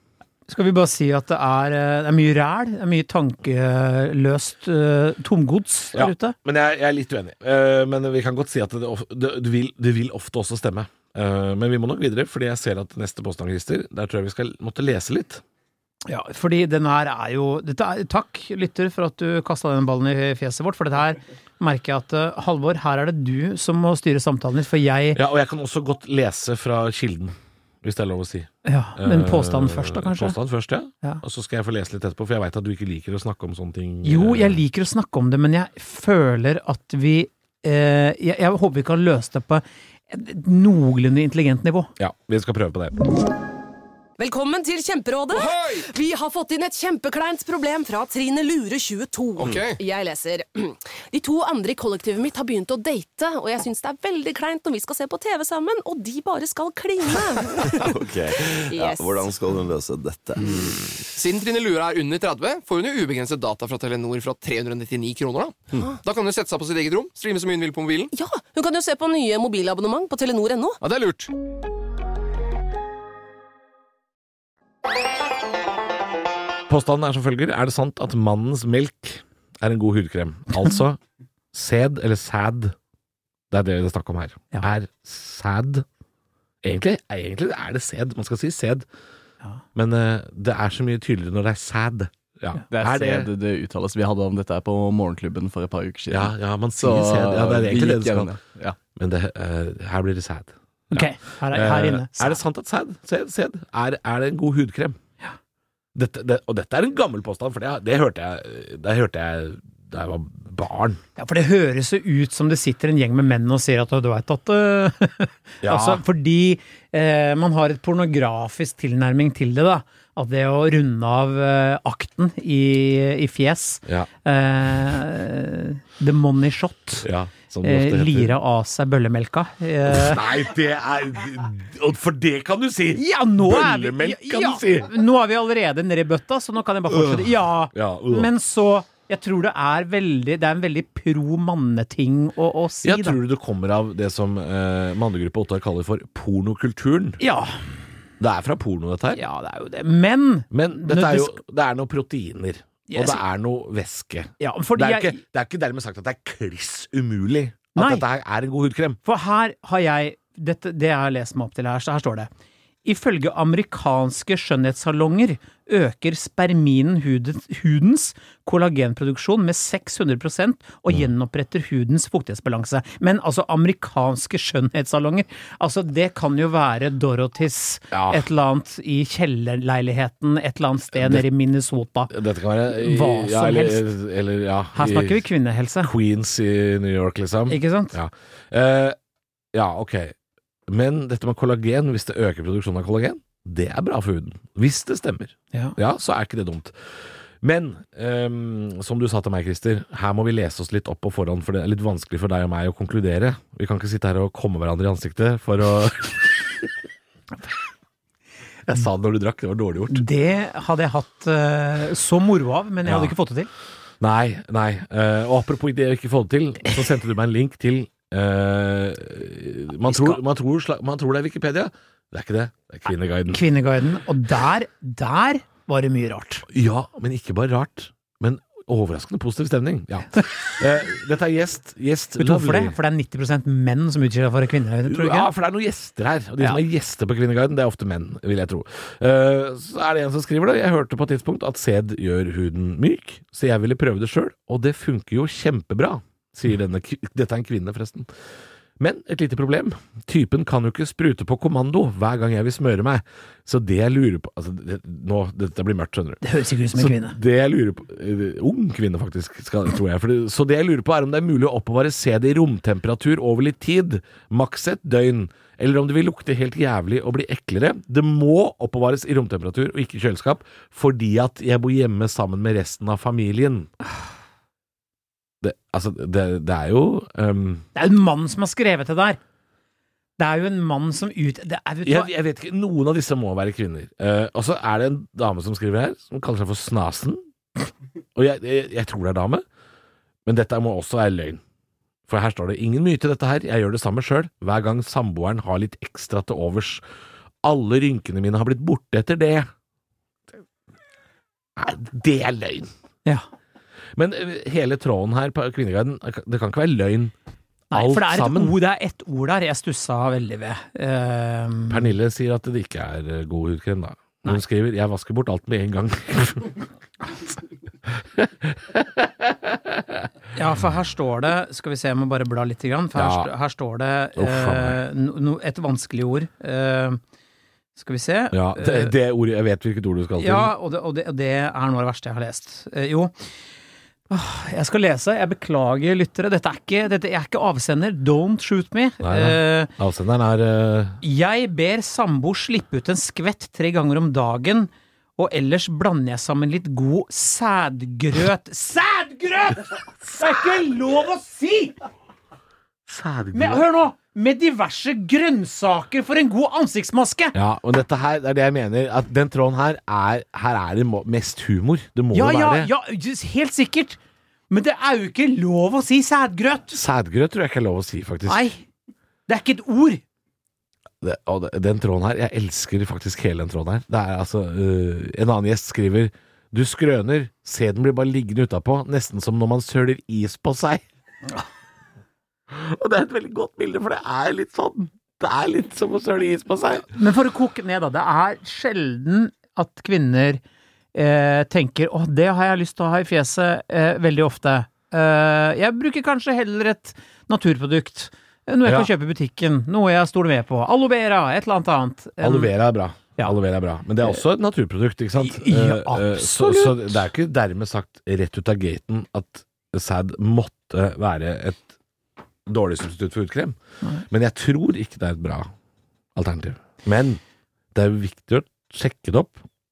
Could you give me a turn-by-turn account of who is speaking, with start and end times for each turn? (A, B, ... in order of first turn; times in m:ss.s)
0:00.5-0:06.4 A
0:05.9-0:15.4 B
0:16.1-0:25.2 A
0:25.2-0:34.6 B
0:28.6-0:30.4 A
0:34.0-0:41.9 A
0:42.0-0:43.0 B
0:44.2-0:57.8 C
0:45.3-0:45.9 D
0:49.4-0:49.8 D
0:57.6-1:01.0 E
0:58.4-0:59.2 C
1:01.2-1:08.1 D
1:08.1-1:10.8 C
1:10.8-1:11.3 D
1:16.7-1:21.0 B
1:21.5-1:22.8 B
1:23.5-1:25.9 B
1:26.6-1:28.9 B
1:29.8-1:33.3 B
1:32.7-1:38.8 F
1:36.1-1:38.4 B
1:39.0-1:45.0 B
1:40.9-1:42.4 A
1:46.0-1:51.0 B
1:51.2-2:07.1 A
1:55.6-1:56.0 B
2:07.0-2:08.4 B
2:07.6-2:10.2 A
2:09.9-2:14.9 B
2:12.9-2:23.2 A
2:16.9-2:18.3 B
2:22.8-2:27.2 B
2:27.2-2:27.7 A
2:28.2-2:29.2 B
2:29.1-2:31.4 A
2:30.5-2:39.0 B
2:32.9-2:33.2 A
2:34.4-2:35.2 A
2:37.8-2:38.0 A
2:39.0-2:42.3 A
2:42.8-3:02.1 A
2:57.9-2:58.3 B
3:00.9-3:01.2 B
3:02.1-3:05.2 B
3:02.7-3:03.9 A
3:04.8-3:05.9 A
3:05.8-3:09.0 B
3:07.5-3:08.0 A
3:09.5-3:10.2 B
3:10.7-3:26.7 B
3:28.7-3:30.0 B
3:29.9-3:33.5 A
3:32.8-3:33.2 B
3:34.0-3:43.4 B
3:39.9-3:40.2 A
3:43.3-3:46.4 A
3:46.5-3:52.8 B
3:52.2-3:55.3 A
3:54.8-4:08.1 B
4:08.8-4:16.2 B
4:16.2-4:17.2 A
4:16.7-4:33.7 B
4:35.4-4:37.7 B
4:37.8-4:39.2 A
4:40.2-4:42.1 A
4:41.8-4:47.2 B
4:48.2-4:49.4 B
4:50.3-4:51.4 B
4:52.1-4:56.8 B
4:57.4-4:59.5 B
5:01.6-5:02.7 B
5:04.0-5:07.1 B
5:07.7-5:11.9 A
5:07.7-5:08.6 B
5:11.7-5:16.6 B
5:18.0-5:20.0 B
5:20.3-5:27.0 A
5:23.0-5:23.3 B
5:24.2-5:24.8 B
5:27.8-5:28.9 A
5:28.3-5:30.5 B
5:30.2-5:33.1 A
5:34.1-5:39.7 A
5:39.0-5:41.0 B
5:41.0-5:51.8 A
5:52.9-5:53.7 B
5:53.3-5:57.4 A
5:57.3-6:02.7 B
6:02.1-6:04.0 A
6:04.5-6:06.8 A
6:06.7-6:08.5 B
6:08.3-6:08.6 A
6:09.3-6:10.0 A
6:11.0-6:20.8 B
6:22.5-6:26.9 B
6:26.9-6:30.4 A
6:30.9-6:42.5 A
6:38.6-6:38.9 B
6:42.2-6:51.7 B
6:45.2-6:47.0 A
6:52.5-6:53.6 B
6:54.1-6:55.5 B
6:56.2-6:57.2 B
6:57.7-6:59.4 B